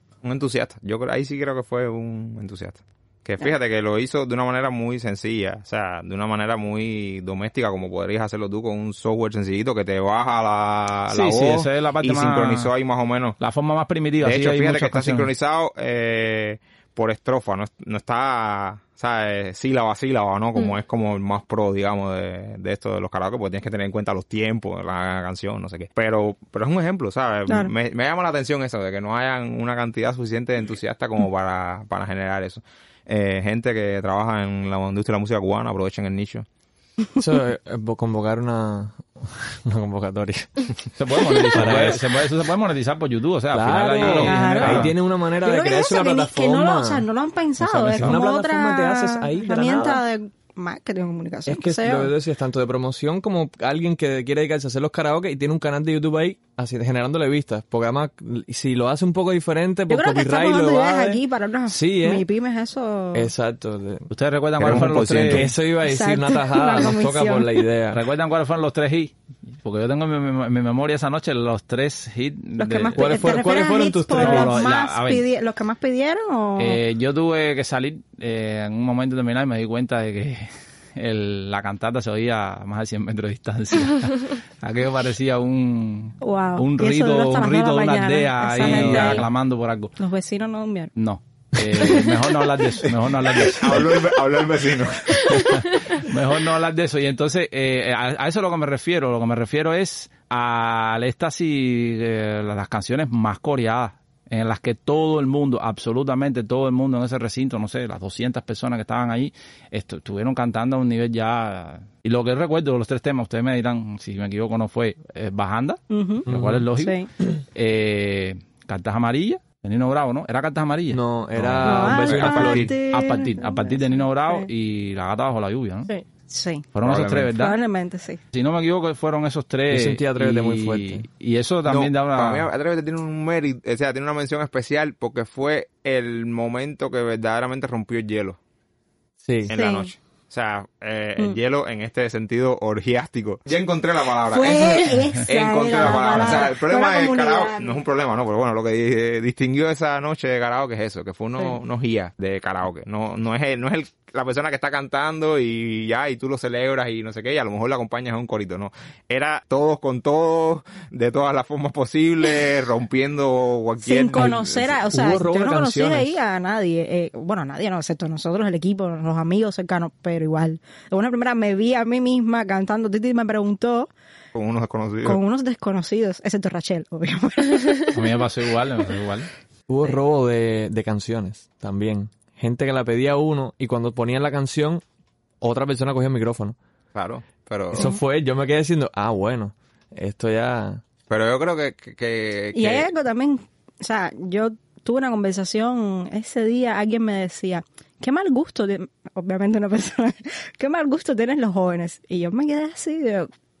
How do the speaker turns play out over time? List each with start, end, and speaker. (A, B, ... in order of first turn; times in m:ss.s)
0:00.2-0:13.4 A
0:11.1-0:12.7 B
0:13.4-0:15.3 B
0:14.2-0:36.4 A
0:27.5-0:27.7 C
0:37.2-0:40.9 D
0:41.0-0:44.9 B
0:41.4-0:42.3 D
0:43.5-0:47.0 D
0:44.0-0:52.1 C
0:47.6-0:50.0 D
0:47.9-0:48.2 B
0:51.4-1:02.3 D
0:59.9-1:03.3 C
1:03.1-1:08.0 D
1:04.1-1:05.5 B
1:04.6-1:05.5 A
1:05.8-1:07.6 C
1:07.9-1:13.0 B
1:12.6-1:16.8 C
1:13.0-1:14.6 D
1:14.2-1:15.2 B
1:16.6-1:29.9 B
1:26.2-1:29.3 C
1:28.6-1:29.2 A
1:30.0-1:30.9 C
1:31.0-1:33.9 B
1:33.5-1:35.4 A
1:35.3-1:56.9 B
1:55.9-1:57.1 C
1:56.3-1:56.6 D
1:57.5-2:01.0 B
2:00.9-2:02.7 D
2:01.4-2:02.7 A
2:01.6-2:04.5 C
2:02.9-2:05.9 B
2:06.3-2:08.2 C
2:06.7-2:07.6 B
2:06.8-2:07.3 A
2:08.3-2:12.5 B
2:09.7-2:11.0 D
2:11.6-2:18.4 A
2:19.2-2:19.5 D
2:19.5-2:44.8 A
2:19.5-2:19.9 C
2:24.3-2:27.8 C
2:43.8-2:53.9 C
2:44.9-2:46.1 D
2:54.3-2:55.2 A
2:55.0-2:57.9 C
2:57.9-2:59.3 B
2:59.7-3:04.8 D
3:05.4-3:06.6 D
3:06.9-3:07.9 A
3:07.7-3:10.8 D
3:11.1-3:12.9 A
3:12.5-3:23.3 C